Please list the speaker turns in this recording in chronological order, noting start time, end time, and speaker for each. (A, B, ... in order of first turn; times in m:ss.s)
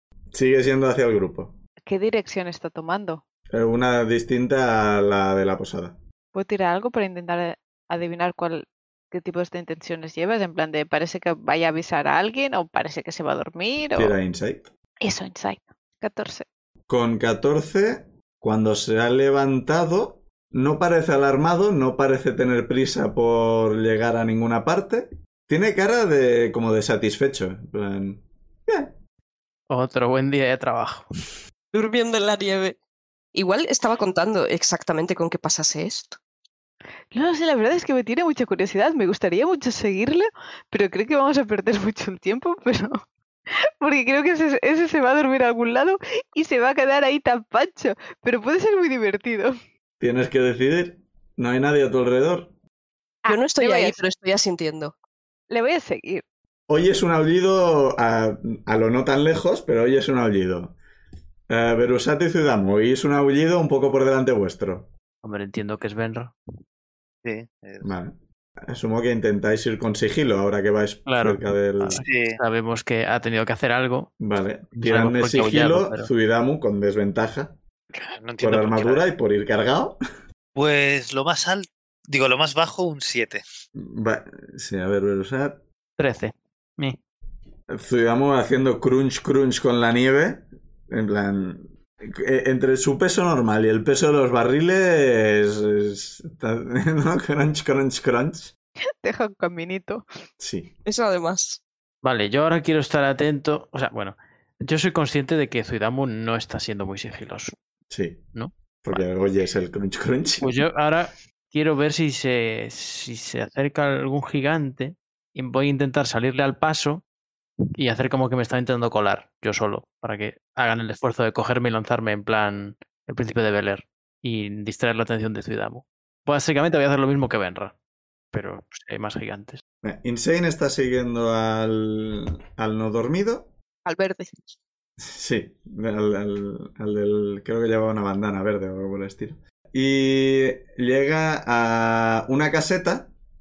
0:00.3-0:01.6 A
0:01.9-0:03.2 B
0:03.5-0:06.0 A
0:06.3-0:14.2 B
0:14.0-0:14.7 A
0:15.0-0:16.5 B
0:16.9-0:28.9 A
0:29.7-0:31.1 C
0:31.7-0:32.8 D
0:33.3-0:36.2 D
0:37.1-0:43.0 B
0:43.8-0:49.5 B
0:50.0-0:52.5 A
0:53.2-0:54.0 B
0:53.3-0:54.9 D
0:55.5-0:56.2 B
0:56.7-1:00.8 A
1:01.5-1:04.9 A
1:05.2-1:06.4 C
1:07.2-1:07.9 E
1:07.8-1:12.0 A
1:11.1-1:14.1 C
1:12.0-1:12.4 E
1:14.2-1:17.6 A
1:14.7-1:16.1 C
1:17.9-1:19.1 E
1:18.4-1:20.0 A
1:20.6-1:23.4 E
1:23.8-1:25.6 A
1:26.0-1:27.0 C
1:27.7-1:38.5 A
1:39.0-1:40.0 B
1:40.4-1:40.7 A
1:40.8-1:41.6 D
1:42.0-1:47.6 C
1:47.9-1:48.3 A
1:48.3-1:49.0 C
1:48.8-1:50.6 A
1:50.4-1:57.0 C
1:57.8-2:07.7 C
2:08.3-2:09.6 C
2:09.8-2:13.5 A
2:13.8-2:14.6 D
2:15.0-2:23.1 A